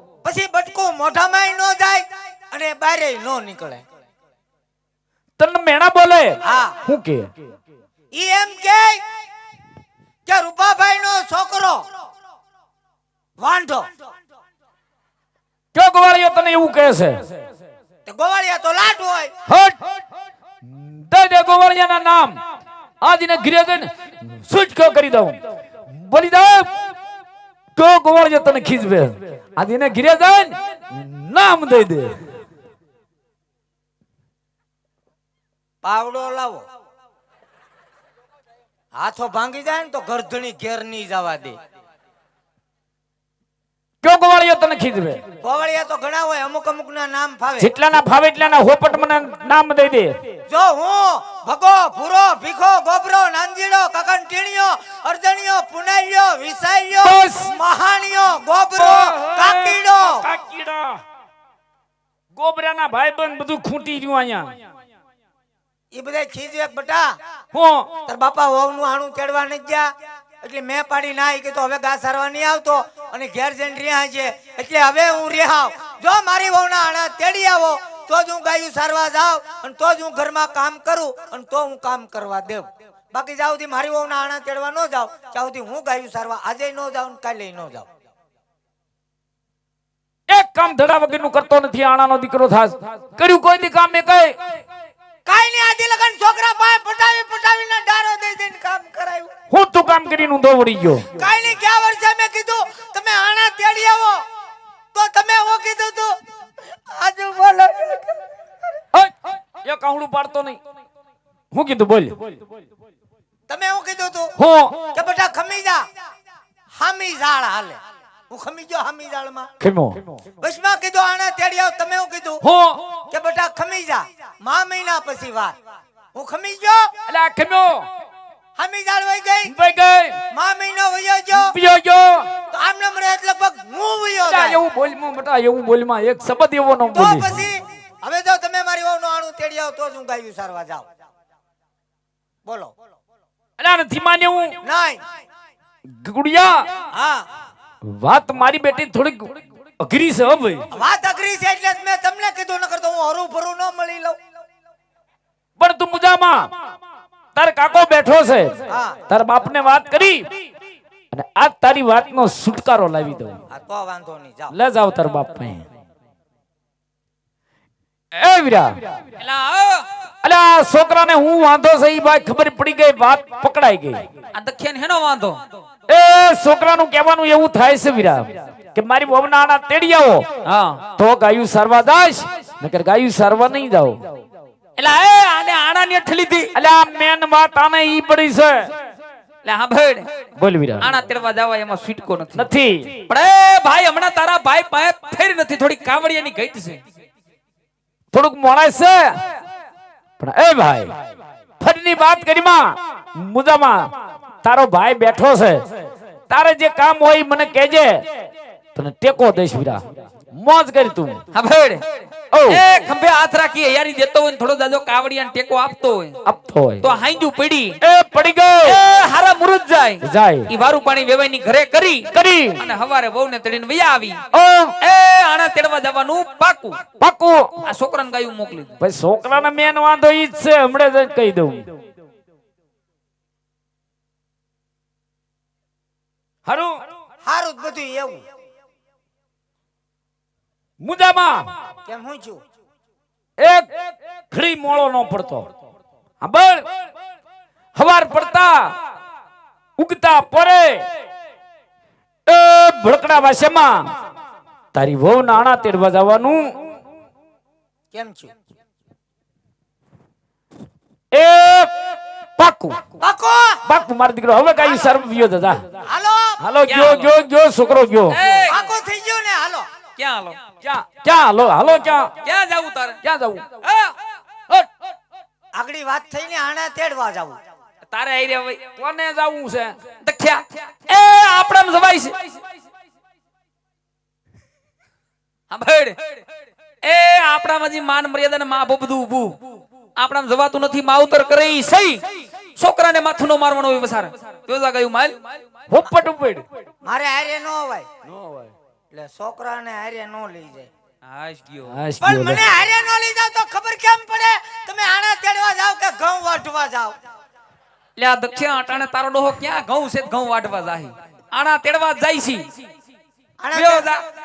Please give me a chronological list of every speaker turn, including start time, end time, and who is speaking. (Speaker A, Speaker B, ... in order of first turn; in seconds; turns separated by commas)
Speaker A: 0.2-3.8, Speaker B: 5.4-7.3, Speaker A: 6.4-6.8, Speaker A: 8.1-9.0, Speaker A: 10.3-11.9, Speaker A: 13.4-13.9, Speaker B: 15.7-17.3, Speaker A: 18.1-19.3, Speaker B: 19.5-19.8, Speaker B: 20.7-22.4, Speaker B: 23.0-25.4, Speaker B: 25.9-26.7, Speaker B: 27.8-32.1, Speaker A: 35.8-36.6, Speaker A: 38.9-41.6, Speaker B: 44.0-45.2, Speaker A: 45.4-47.7, Speaker B: 47.6-50.2, Speaker A: 50.5-60.2, Speaker B: 57.0-57.5, Speaker B: 58.8-61.0, Speaker B: 62.4-64.5, Speaker A: 65.9-67.2, Speaker B: 67.5-67.9, Speaker A: 68.1-87.9, Speaker B: 90.3-94.4, Speaker A: 95.3-99.3, Speaker B: 99.5-101.1, Speaker A: 101.1-104.2, Speaker A: 104.9-106.2, Speaker A: 106.9-108.2, Speaker B: 108.9-110.6, Speaker B: 111.5-112.3, Speaker A: 113.5-114.3, Speaker B: 114.4-114.8, Speaker A: 114.9-115.9, Speaker A: 116.8-117.8, Speaker A: 118.3-119.5, Speaker B: 119.6-120.0, Speaker A: 120.4-122.4, Speaker B: 122.4-123.0, Speaker A: 123.1-125.6, Speaker A: 126.1-126.9, Speaker B: 127.1-127.9, Speaker A: 128.6-129.5, Speaker B: 129.5-130.2, Speaker A: 130.3-131.5, Speaker B: 131.3-132.3, Speaker A: 132.5-134.6, Speaker B: 134.3-137.4, Speaker A: 136.9-140.8, Speaker A: 142.4-142.7, Speaker B: 143.6-144.6, Speaker A: 144.6-145.0, Speaker B: 145.9-146.7, Speaker A: 146.9-147.2, Speaker B: 147.8-150.6, Speaker A: 150.7-154.2, Speaker B: 155.6-156.5, Speaker B: 157.3-160.3, Speaker A: 158.7-159.0, Speaker B: 161.1-163.4, Speaker A: 163.5-164.5, Speaker B: 164.5-165.7, Speaker B: 168.1-168.9, Speaker C: 169.2-169.9, Speaker B: 170.2-174.1, Speaker C: 174.3-175.4, Speaker B: 175.9-180.3, Speaker C: 180.4-180.8, Speaker B: 181.0-184.1, Speaker C: 184.8-186.5, Speaker B: 186.6-188.7, Speaker C: 189.4-190.1, Speaker B: 190.4-190.9, Speaker C: 190.8-192.4, Speaker B: 192.4-193.1, Speaker C: 193.1-196.8, Speaker B: 198.1-199.2, Speaker B: 200.2-200.9, Speaker B: 201.6-203.9, Speaker B: 204.4-205.6, Speaker B: 206.3-208.1, Speaker B: 208.8-209.8, Speaker B: 210.3-211.2, Speaker C: 211.3-216.2, Speaker B: 212.3-212.6, Speaker B: 216.2-216.9, Speaker C: 216.8-217.8, Speaker B: 217.8-218.8, Speaker C: 218.6-224.2, Speaker B: 220.0-220.5, Speaker B: 222.1-222.6, Speaker B: 224.3-224.8, Speaker C: 224.8-226.8, Speaker B: 227.0-227.6, Speaker C: 227.6-228.7, Speaker B: 228.8-231.7, Speaker B: 236.5-236.8, Speaker A: 237.2-238.2, Speaker B: 240.8-241.5, Speaker A: 241.9-242.4, Speaker B: 243.4-245.5, Speaker B: 246.2-246.7, Speaker B: 247.8-248.8, Speaker B: 249.8-250.8, Speaker B: 252.3-253.9, Speaker B: 254.7-256.5, Speaker A: 257.9-258.3, Speaker B: 261.1-261.7, Speaker B: 262.4-262.8, Speaker A: 263.0-263.6, Speaker B: 263.6-265.6, Speaker A: 264.6-264.9, Speaker A: 265.9-266.4, Speaker B: 266.4-268.2, Speaker C: 266.6-267.1, Speaker C: 268.1-268.7, Speaker A: 268.4-269.6, Speaker C: 270.0-270.4, Speaker B: 270.6-272.1, Speaker C: 272.2-273.0, Speaker B: 273.0-273.5, Speaker C: 273.6-273.9, Speaker A: 275.5-277.4, Speaker C: 277.9-278.6, Speaker B: 278.8-279.8, Speaker C: 280.0-282.4, Speaker C: 285.5-286.2, Speaker C: 286.8-289.4, Speaker C: 289.9-295.4, Speaker B: 295.7-296.4, Speaker A: 296.8-297.9, Speaker B: 298.1-298.5, Speaker A: 298.9-300.7, Speaker C: 301.0-301.8, Speaker B: 301.7-302.5, Speaker A: 302.0-307.0, Speaker C: 308.0-312.6, Speaker A: 313.4-313.9, Speaker C: 313.5-314.0